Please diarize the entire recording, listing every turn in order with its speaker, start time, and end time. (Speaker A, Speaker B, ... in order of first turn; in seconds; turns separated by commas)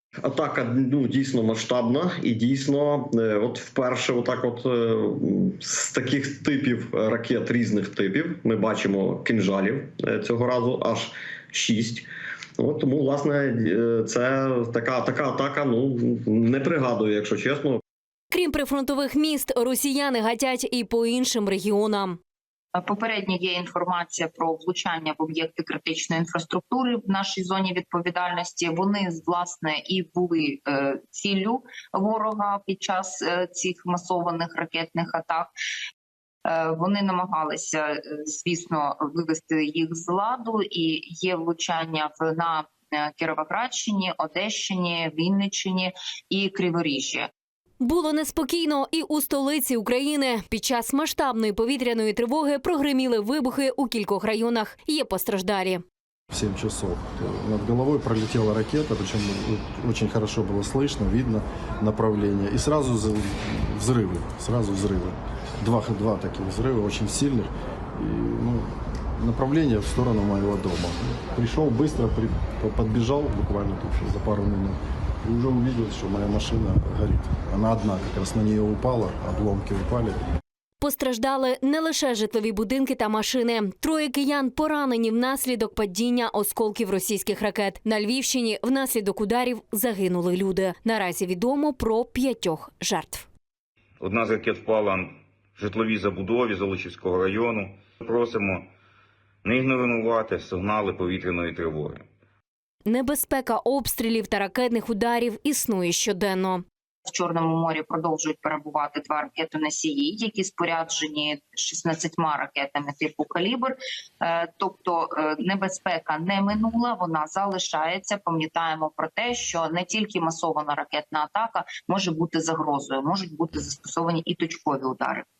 Speaker A: 0.2-12.1, Speaker A: 12.6-17.8, Speaker B: 18.3-22.2, Speaker C: 22.7-35.5, Speaker C: 36.4-47.3, Speaker B: 47.8-55.8, Speaker D: 56.3-80.2, Speaker B: 80.8-93.3, Speaker E: 94.0-98.7, Speaker E: 99.4-102.1, Speaker B: 102.8-106.6, Speaker C: 107.1-125.2